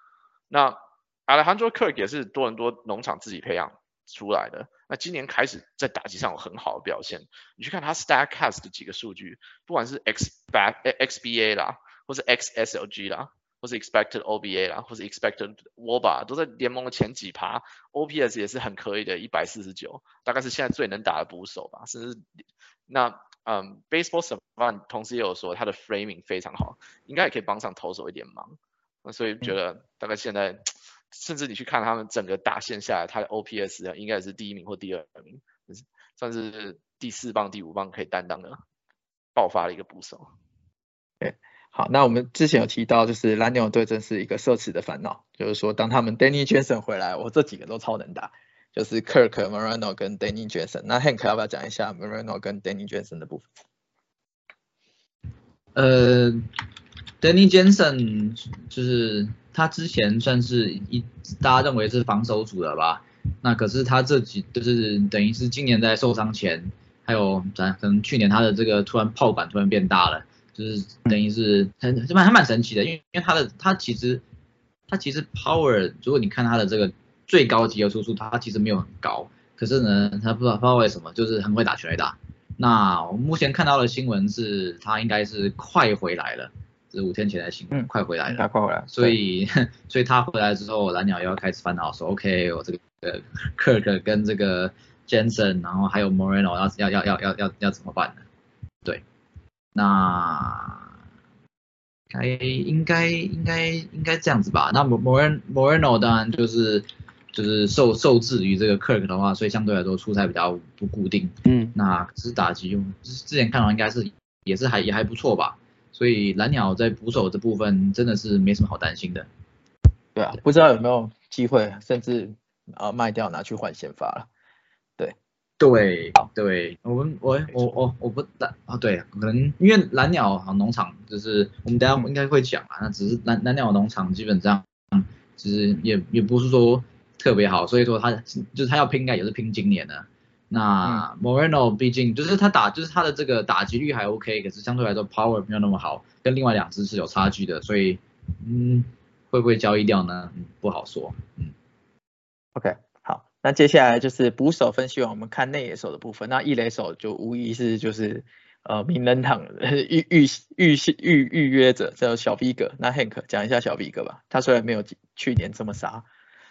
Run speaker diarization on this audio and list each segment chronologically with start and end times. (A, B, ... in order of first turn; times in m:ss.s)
0:00.5-0:22.2 A
0:22.9-0:38.6 A
0:39.4-0:40.3 A
0:41.2-0:53.5 B
0:55.8-0:56.5 C
0:57.2-1:14.2 C
1:14.9-1:38.2 C
1:27.7-1:29.2 B
1:39.7-1:40.9 C
1:42.1-1:59.3 C
1:51.4-1:51.7 B
2:00.1-2:04.3 B
2:05.6-2:31.5 C
2:32.5-2:46.0 B